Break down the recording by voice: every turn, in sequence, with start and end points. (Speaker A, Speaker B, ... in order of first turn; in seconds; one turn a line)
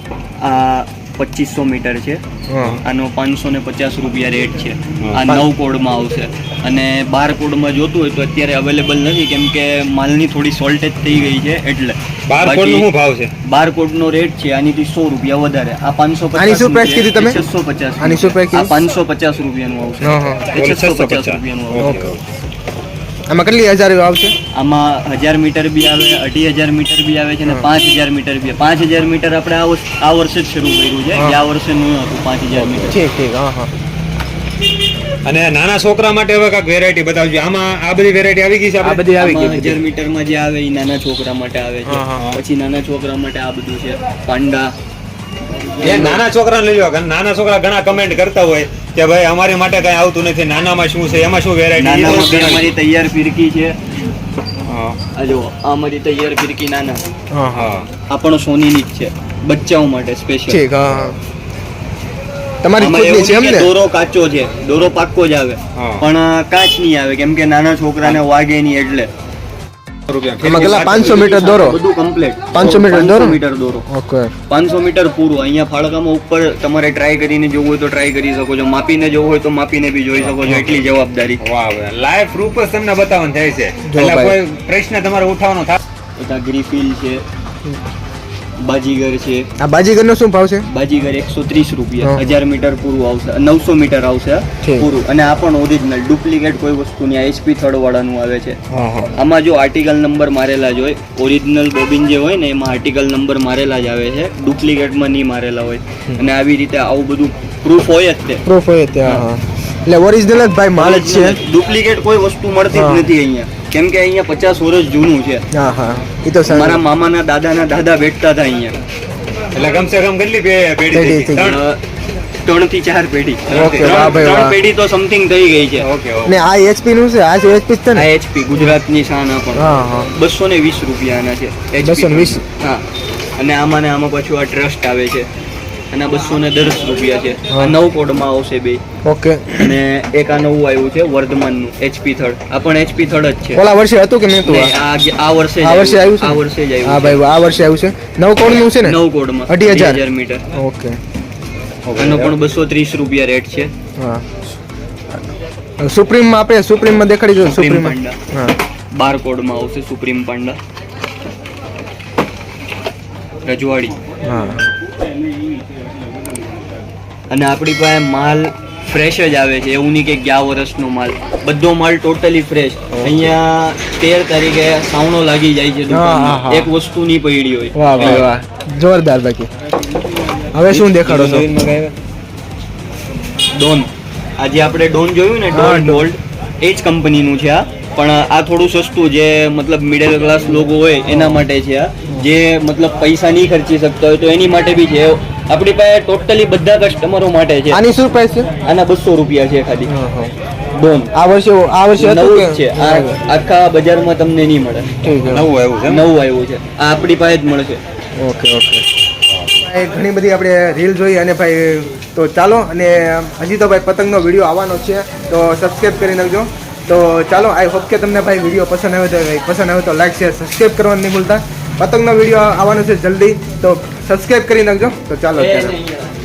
Speaker A: 0.4-2.2
Speaker B: 2.5-2.8
Speaker A: 2.8-12.9
Speaker C: 12.3-13.3
Speaker A: 13.4-21.9
Speaker B: 16.3-17.4
Speaker B: 18.0-18.8
Speaker B: 20.0-20.5
Speaker C: 20.5-22.2
Speaker B: 21.8-22.1
Speaker B: 23.3-24.3
Speaker A: 24.5-33.0
Speaker B: 31.1-31.4
Speaker B: 32.8-33.7
Speaker C: 35.2-39.1
Speaker B: 38.8-39.8
Speaker A: 39.2-44.7
Speaker B: 41.9-42.2
Speaker A: 45.8-46.2
Speaker C: 45.8-52.7
Speaker A: 51.8-53.8
Speaker C: 54.7-55.0
Speaker A: 55.1-57.0
Speaker B: 57.3-57.7
Speaker C: 57.5-57.9
Speaker A: 58.1-60.6
Speaker B: 60.5-61.2
Speaker B: 62.6-63.7
Speaker A: 62.8-69.1
Speaker C: 65.8-66.0
Speaker C: 70.1-71.5
Speaker B: 70.4-71.8
Speaker A: 70.5-73.8
Speaker B: 72.5-73.4
Speaker B: 73.9-74.3
Speaker A: 74.5-81.4
Speaker C: 80.2-80.8
Speaker C: 81.4-85.8
Speaker B: 83.9-84.4
Speaker A: 86.2-87.2
Speaker A: 88.6-89.5
Speaker B: 89.6-90.7
Speaker A: 90.7-98.6
Speaker B: 92.0-92.3
Speaker B: 94.6-94.9
Speaker B: 98.7-99.1
Speaker A: 99.1-108.4
Speaker B: 108.5-111.4
Speaker A: 110.8-115.4
Speaker B: 112.7-113.1
Speaker B: 115.5-116.8
Speaker A: 116.5-118.8
Speaker C: 119.5-121.6
Speaker B: 120.9-121.5
Speaker A: 121.4-121.8
Speaker A: 122.4-125.8
Speaker C: 123.5-124.3
Speaker B: 123.5-124.5
Speaker C: 125.8-126.4
Speaker B: 126.2-128.7
Speaker A: 127.9-132.8
Speaker B: 129.5-130.1
Speaker B: 131.8-132.4
Speaker A: 133.4-135.3
Speaker A: 135.9-138.8
Speaker B: 139.0-139.7
Speaker A: 139.6-143.6
Speaker B: 143.5-144.8
Speaker A: 144.4-147.2
Speaker B: 145.6-149.0
Speaker A: 148.8-150.4
Speaker B: 149.5-150.0
Speaker B: 150.5-151.0
Speaker C: 151.8-152.3
Speaker A: 151.9-153.7
Speaker B: 154.0-154.2
Speaker B: 155.8-158.6
Speaker A: 157.5-158.2
Speaker A: 158.9-160.6
Speaker A: 163.4-163.9
Speaker B: 164.2-164.6
Speaker A: 167.3-178.3
Speaker B: 172.9-173.3
Speaker B: 175.9-176.7
Speaker B: 177.7-179.5
Speaker C: 177.9-178.3
Speaker B: 180.5-181.5
Speaker C: 180.7-181.9
Speaker A: 183.5-197.8
Speaker B: 185.5-186.1
Speaker B: 191.1-191.4
Speaker B: 197.7-198.5
Speaker A: 198.6-199.9
Speaker B: 199.9-200.3
Speaker A: 200.7-201.1
Speaker B: 201.1-203.2
Speaker A: 201.9-204.9
Speaker B: 205.0-205.5
Speaker C: 205.2-206.0
Speaker A: 205.8-207.8
Speaker B: 208.2-208.8
Speaker C: 209.3-209.6
Speaker B: 209.6-225.7
Speaker A: 225.3-226.1